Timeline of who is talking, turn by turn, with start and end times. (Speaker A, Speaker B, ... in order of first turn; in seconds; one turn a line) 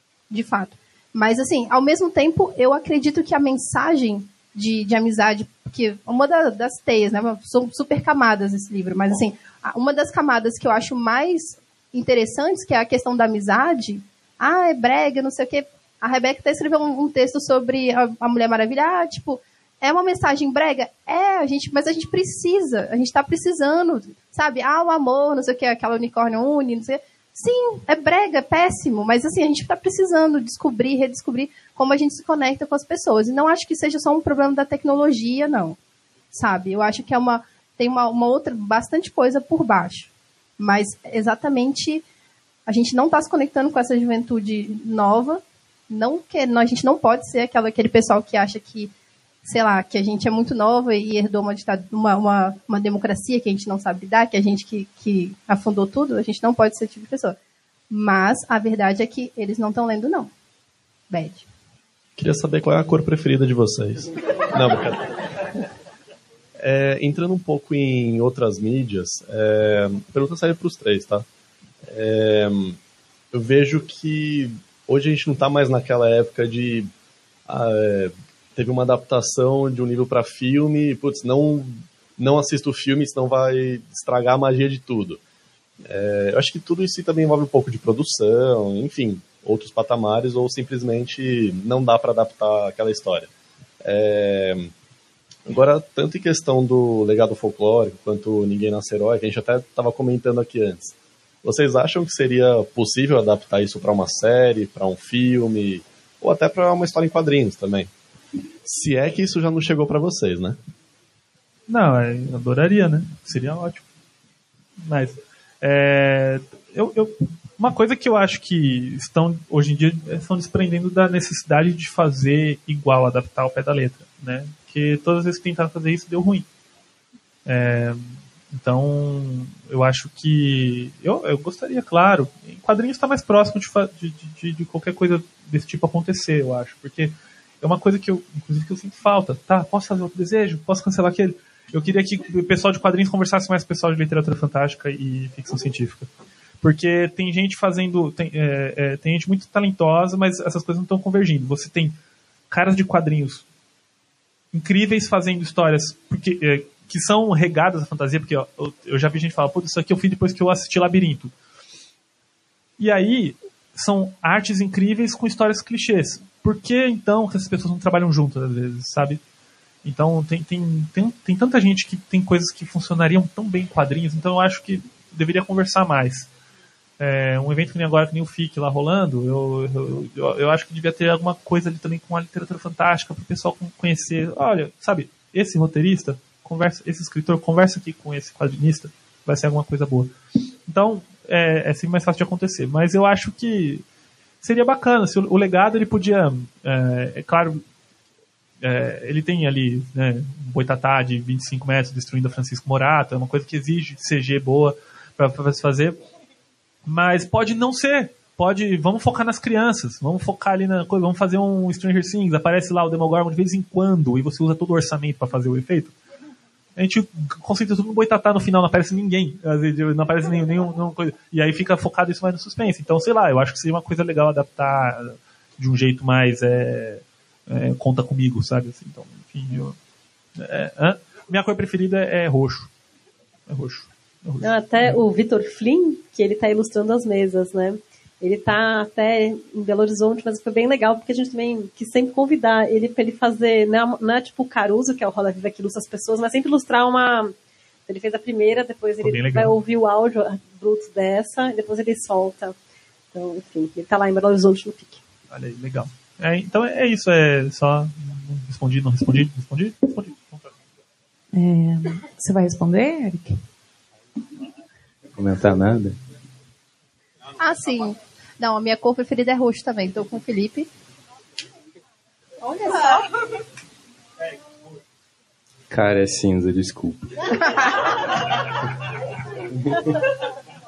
Speaker A: 0.3-35.8
Speaker A: 36.3-42.0
Speaker A: 42.7-48.9
Speaker A: 49.4-57.4
Speaker A: 57.9-60.3
Speaker A: 61.1-61.5
Speaker B: 62.2-65.1
Speaker B: 66.6-71.2
Speaker B: 71.8-72.8
Speaker B: 73.3-76.9
Speaker B: 77.5-85.2
Speaker B: 85.8-93.3
Speaker B: 93.8-94.7
Speaker B: 95.5-107.9
Speaker B: 108.6-110.6
Speaker C: 111.7-113.8
Speaker C: 114.8-126.5
Speaker C: 127.5-146.1
Speaker C: 146.6-151.9
Speaker C: 152.5-153.4
Speaker C: 154.5-161.3
Speaker C: 162.8-169.2
Speaker C: 169.8-176.3
Speaker C: 177.0-190.1
Speaker C: 190.7-193.8
Speaker C: 194.4-197.6
Speaker C: 198.6-206.0
Speaker C: 206.8-215.9
Speaker C: 216.8-229.7
Speaker C: 230.4-232.7
Speaker C: 233.5-235.0
Speaker D: 234.4-247.3
Speaker D: 247.9-252.6
Speaker C: 249.0-249.6
Speaker D: 253.1-255.0
Speaker C: 255.3-260.5
Speaker E: 261.3-263.4
Speaker F: 265.1-265.9
Speaker A: 267.4-270.7
Speaker A: 272.4-273.1
Speaker F: 275.7-277.3